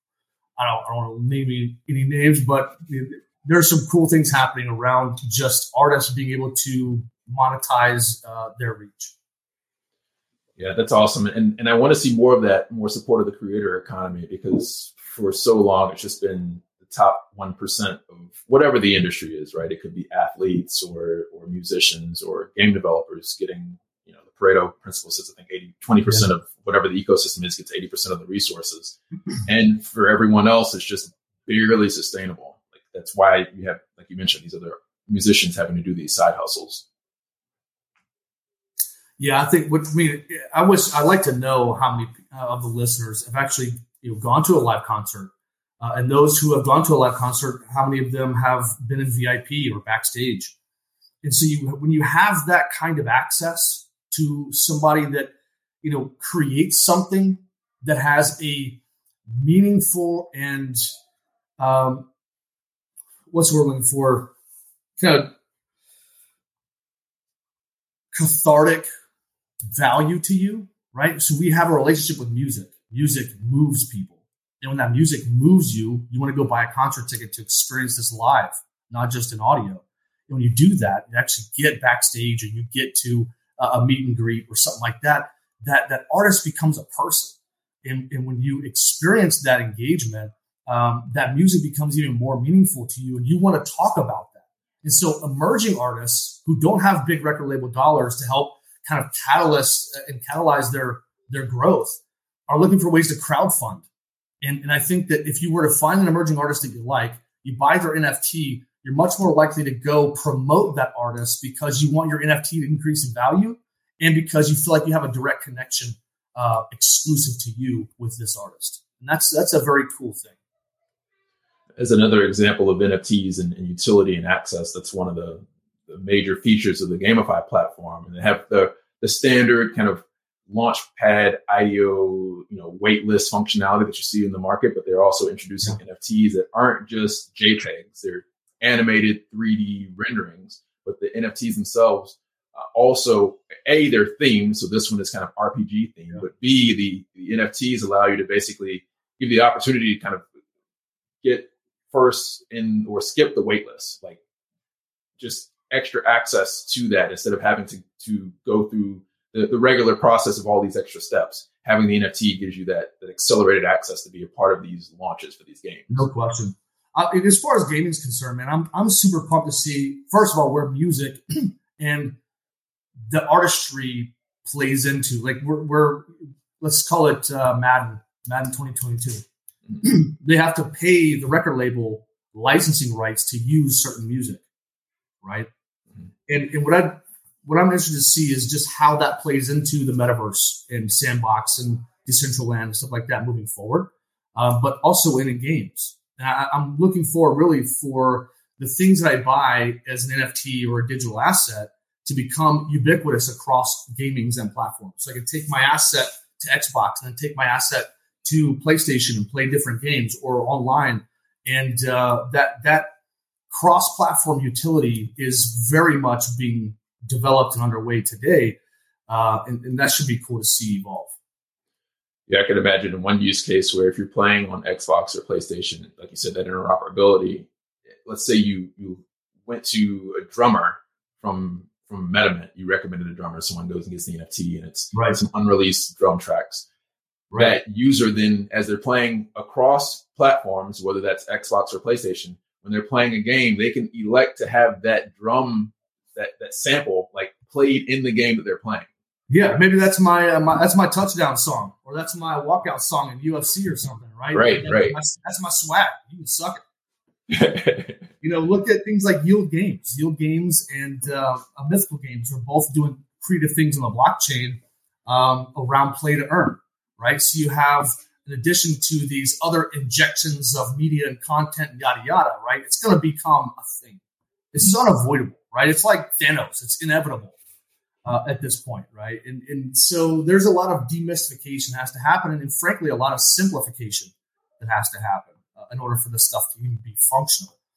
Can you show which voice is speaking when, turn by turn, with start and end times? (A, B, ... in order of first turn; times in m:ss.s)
0:00.6-0:09.1 A
0:10.6-0:36.8 B
0:39.2-0:50.5 A
0:51.2-0:55.3 A
0:55.8-1:00.9 A
1:01.6-1:02.1 A
1:03.3-1:04.3 A
1:05.0-1:05.3 A
1:08.1-1:08.9 A
1:09.7-1:43.8 A
1:44.4-2:00.4 A
2:01.8-2:30.2 B
2:31.2-2:34.2 B
2:35.2-2:46.1 B
2:45.9-2:52.2 A
2:53.1-2:59.2 A
2:59.8-3:04.4 A
3:05.2-3:05.5 A
3:06.3-3:32.9 A
3:33.5-3:41.1 A
3:42.3-3:47.5 B
3:48.0-3:56.6 B
3:54.9-3:55.2 A
3:57.3-3:57.6 A
3:57.3-4:08.9 B
4:09.3-4:16.6 A
4:14.3-4:15.0 B
4:17.3-4:18.0 B
4:18.2-4:34.0 A
4:34.5-4:37.4 A
4:38.0-4:47.5 A